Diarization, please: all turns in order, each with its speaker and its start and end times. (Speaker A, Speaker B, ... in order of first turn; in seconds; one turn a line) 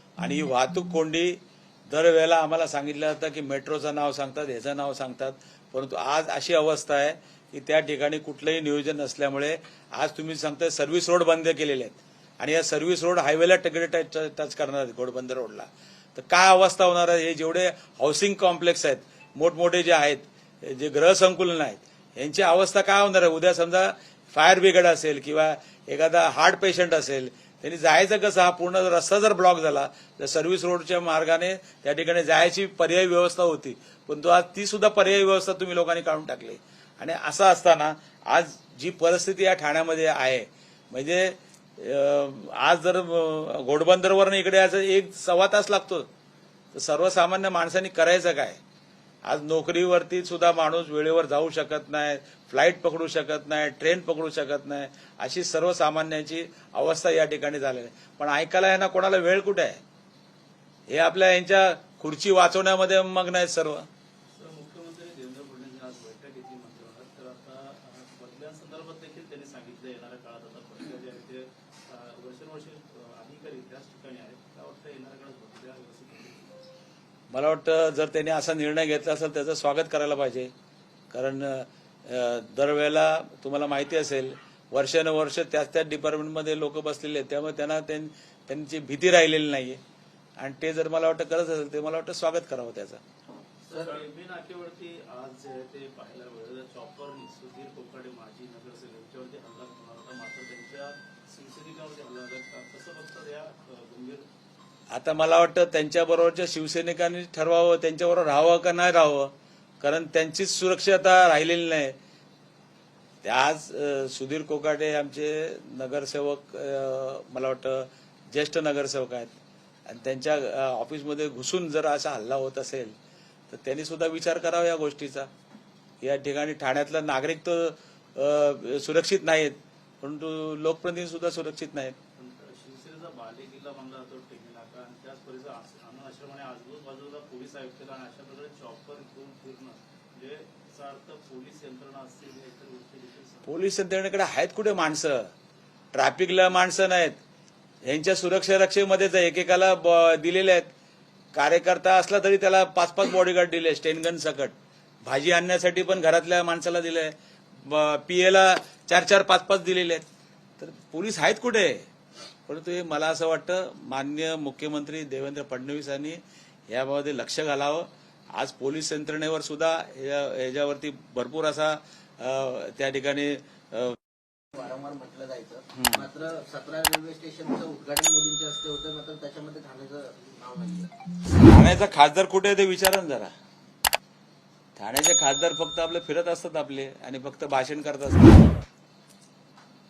Speaker A: 0.2-46.1
Speaker A: 46.7-48.6
Speaker A: 49.3-59.8
Speaker A: 60.9-63.9
Speaker B: 64.3-76.5
Speaker A: 77.3-80.5
Speaker A: 81.1-89.8
Speaker A: 90.4-93.0
Speaker B: 93.7-104.3
Speaker C: 93.7-94.0
Speaker A: 104.9-112.0
Speaker A: 113.2-119.3
Speaker A: 119.9-123.0
Speaker A: 123.5-125.3
Speaker A: 126.0-132.0
Speaker B: 132.2-143.6
Speaker A: 143.4-145.3
Speaker A: 145.9-147.2
Speaker A: 147.8-150.7
Speaker A: 151.3-160.0
Speaker A: 160.6-161.9
Speaker A: 162.5-166.2
Speaker A: 166.7-174.0
Speaker C: 174.5-180.9
Speaker A: 175.8-176.0
Speaker A: 181.3-183.3
Speaker A: 184.8-188.5